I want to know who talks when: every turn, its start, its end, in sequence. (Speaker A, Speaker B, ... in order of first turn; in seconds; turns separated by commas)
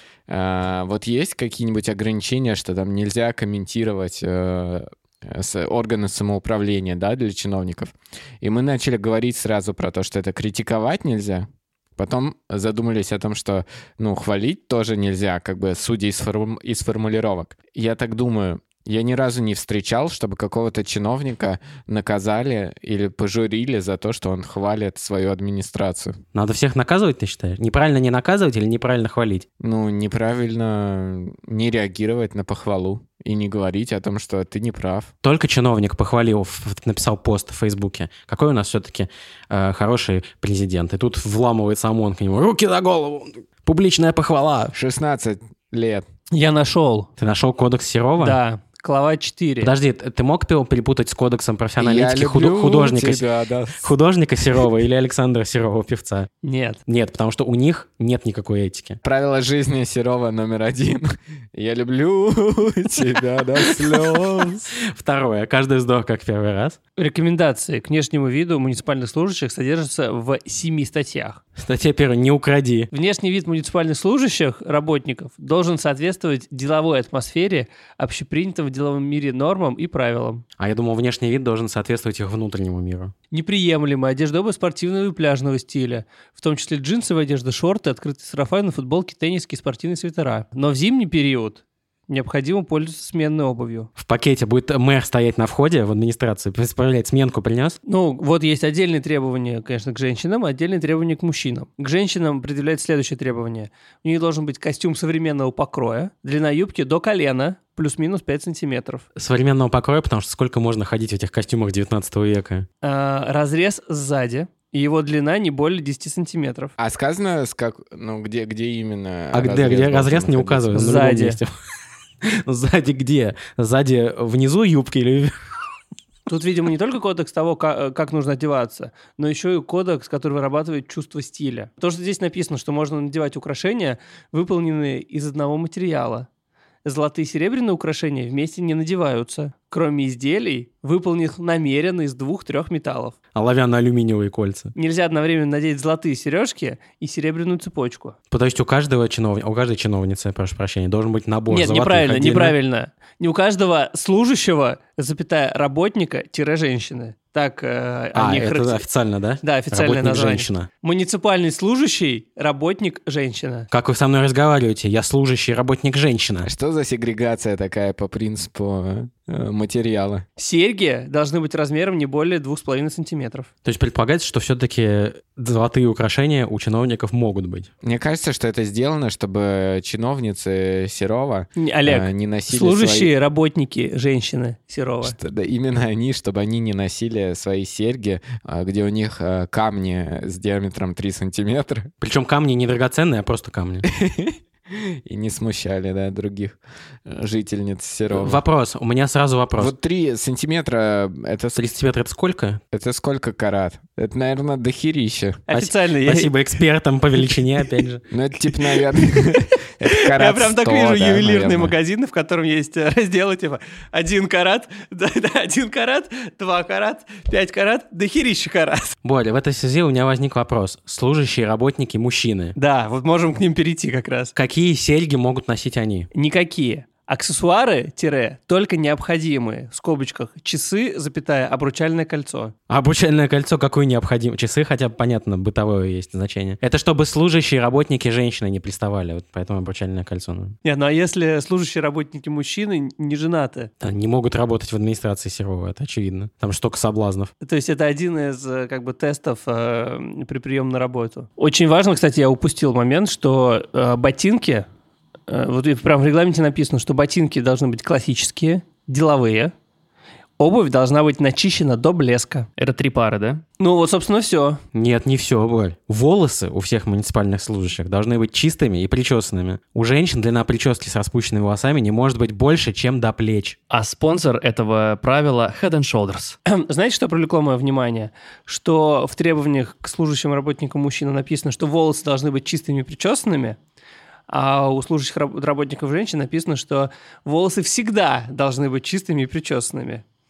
Speaker A: 0.3-26.2, Speaker B: 26.3-29.4, Speaker A: 29.6-35.1, Speaker B: 35.2-44.7, Speaker A: 44.7-46.0, Speaker C: 46.3-47.1, Speaker B: 47.2-48.4, Speaker C: 48.2-49.7, Speaker B: 49.6-53.2, Speaker A: 51.8-53.8, Speaker B: 53.8-56.3, Speaker C: 56.4-56.8, Speaker B: 56.9-59.0, Speaker A: 59.0-64.7, Speaker B: 63.8-66.8, Speaker C: 67.0-71.4, Speaker B: 71.5-72.9, Speaker C: 72.9-80.4, Speaker B: 80.6-83.1, Speaker C: 83.3-93.9, Speaker B: 94.0-97.8, Speaker C: 97.8-109.0, Speaker B: 109.2-112.7, Speaker C: 112.8-116.7, Speaker A: 116.8-120.7, Speaker B: 119.3-121.5, Speaker C: 120.7-121.4, Speaker B: 122.2-125.3, Speaker C: 126.3-136.3, Speaker C: 136.8-143.1, Speaker B: 143.3-144.7, Speaker C: 144.7-148.2, Speaker B: 148.3-152.6, Speaker C: 151.5-158.8, Speaker B: 158.1-160.7, Speaker C: 159.4-163.7, Speaker B: 163.7-166.5, Speaker A: 166.4-170.2, Speaker C: 170.4-173.5, Speaker B: 173.6-177.7, Speaker A: 177.8-183.1, Speaker C: 181.6-185.2, Speaker A: 185.0-191.9, Speaker B: 192.0-193.8, Speaker A: 193.9-198.4, Speaker B: 198.1-199.7, Speaker A: 199.6-201.6, Speaker B: 201.5-202.6, Speaker A: 202.7-205.4, Speaker C: 205.5-206.5, Speaker B: 205.5-208.0, Speaker A: 208.1-211.7, Speaker C: 209.8-218.9, Speaker B: 219.0-222.6, Speaker C: 222.6-224.3, Speaker B: 224.3-226.1, Speaker C: 226.1-232.5, Speaker B: 232.7-240.5, Speaker C: 240.6-243.7, Speaker B: 243.8-247.3, Speaker C: 247.4-254.7, Speaker C: 255.3-259.5, Speaker C: 260.4-262.5, Speaker D: 262.6-263.4, Speaker C: 263.6-264.6, Speaker B: 264.7-273.6, Speaker D: 273.7-276.4, Speaker C: 276.5-283.6, Speaker C: 284.3-290.0